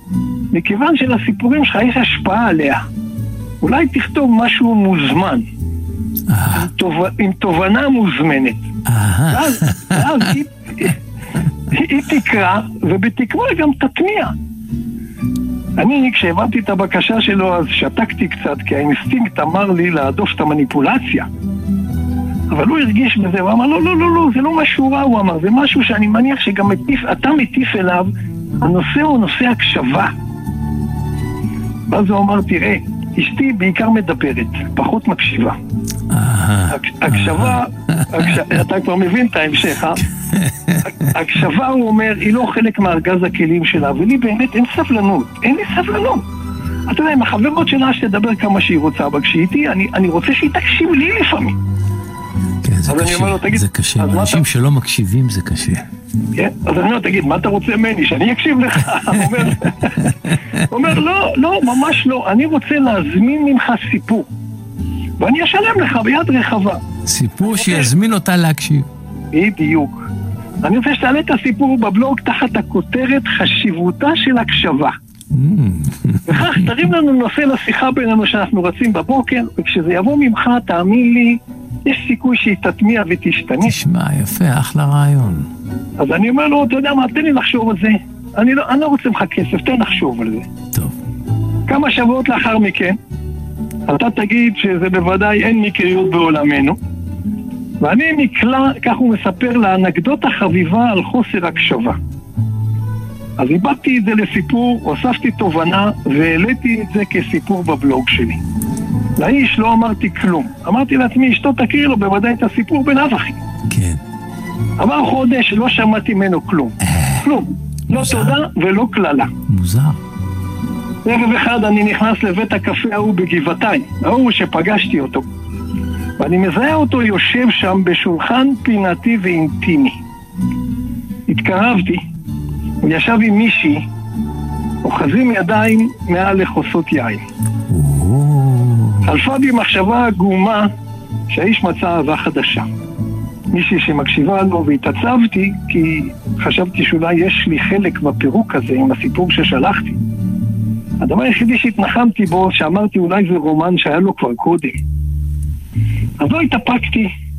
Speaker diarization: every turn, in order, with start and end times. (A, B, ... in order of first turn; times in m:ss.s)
0:00.5-0:02.8 A
0:03.6-0:05.5 A
0:06.3-0:06.7 B
0:06.5-0:08.7 A
0:08.9-0:10.2 B
0:09.3-0:11.0 A
0:11.7-0:14.4 A
0:15.8-0:21.3 A
0:22.5-0:28.1 A
0:28.6-0:30.1 A
0:31.9-0:35.6 A
0:36.1-0:38.4 B
0:36.7-0:40.1 A
0:40.3-0:40.9 B
0:40.8-0:46.2 A
0:46.9-0:51.6 A
0:52.6-0:55.8 B
0:52.9-0:54.4 A
0:56.3-1:04.3 A
1:00.2-1:00.6 B
1:05.2-1:06.8 A
1:07.1-1:08.9 B
1:07.4-1:07.9 A
1:09.3-1:10.1 A
1:10.6-1:14.9 A
1:15.3-1:16.7 B
1:16.3-1:23.8 A
1:23.6-1:25.5 B
1:26.0-1:30.5 A
1:31.7-1:33.0 A
1:33.9-1:36.8 A
1:37.8-1:42.0 A
1:43.4-1:48.4 A
1:49.2-1:53.4 A
1:53.7-1:54.0 B
1:54.8-1:59.3 A
1:56.9-1:57.2 B
1:57.9-1:58.4 B
1:59.5-2:00.0 B
2:01.0-2:05.3 A
2:06.2-2:10.0 A
2:11.3-2:12.0 A
2:12.8-2:13.8 A
2:14.8-2:17.2 A
2:17.7-2:19.1 B
2:19.0-2:20.7 A
2:21.3-2:22.7 A
2:23.5-2:30.0 A
2:31.0-2:34.8 A
2:36.2-2:37.1 A